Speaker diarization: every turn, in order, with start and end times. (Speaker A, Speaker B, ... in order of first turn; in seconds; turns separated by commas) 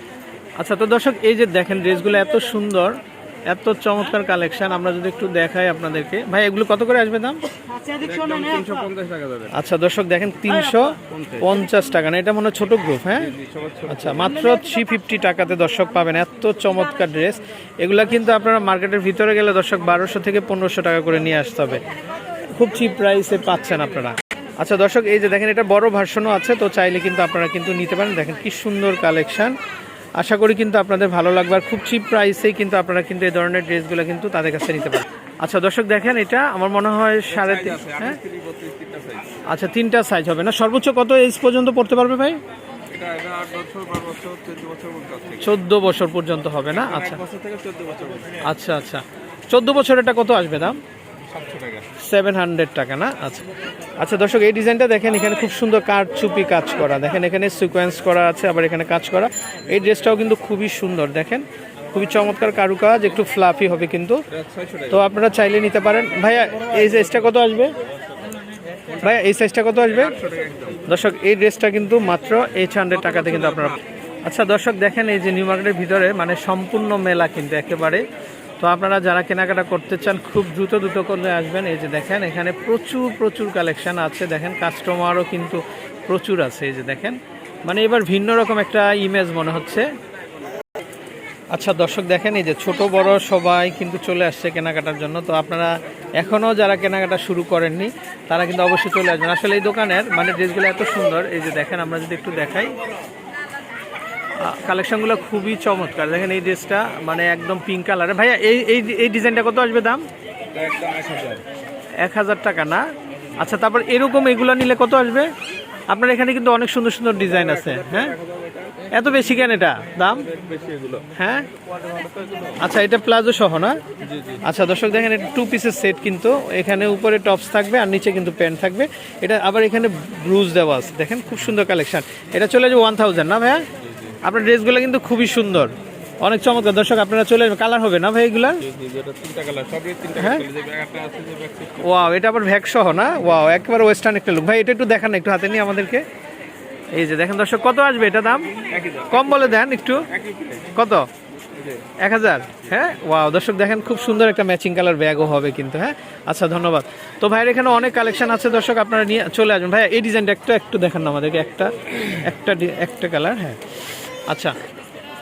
Speaker A: 0.6-7.4, Speaker B: 7.9-9.5, Speaker A: 9.5-13.3, Speaker B: 11.1-11.4, Speaker B: 13.2-14.3, Speaker A: 13.9-21.8, Speaker A: 22.5-29.6, Speaker A: 30.2-38.2, Speaker B: 37.3-39.4, Speaker A: 39.5-42.4, Speaker B: 42.9-45.5, Speaker A: 45.4-47.2, Speaker B: 46.7-48.5, Speaker A: 48.4-50.8, Speaker B: 51.2-51.9, Speaker A: 52.0-53.5, Speaker A: 54.0-64.2, Speaker B: 64.3-65.0, Speaker A: 64.9-67.7, Speaker A: 69.0-70.2, Speaker B: 70.0-70.8, Speaker A: 70.8-78.0, Speaker A: 78.6-89.9, Speaker A: 91.5-102.8, Speaker A: 104.4-110.1, Speaker B: 110.5-111.5, Speaker A: 112.0-112.9, Speaker A: 113.4-115.3, Speaker A: 115.9-118.2, Speaker B: 117.3-118.9, Speaker A: 118.9-120.3, Speaker B: 120.2-121.1, Speaker A: 121.1-121.5, Speaker B: 121.9-122.5, Speaker A: 122.6-123.8, Speaker B: 124.0-124.4, Speaker A: 124.4-133.7, Speaker A: 134.2-138.7, Speaker B: 138.6-141.9, Speaker A: 140.2-140.5, Speaker A: 141.8-146.1, Speaker A: 146.9-150.1, Speaker B: 148.6-149.6, Speaker B: 150.1-150.7, Speaker A: 150.7-151.1, Speaker A: 152.0-163.6, Speaker A: 164.3-164.6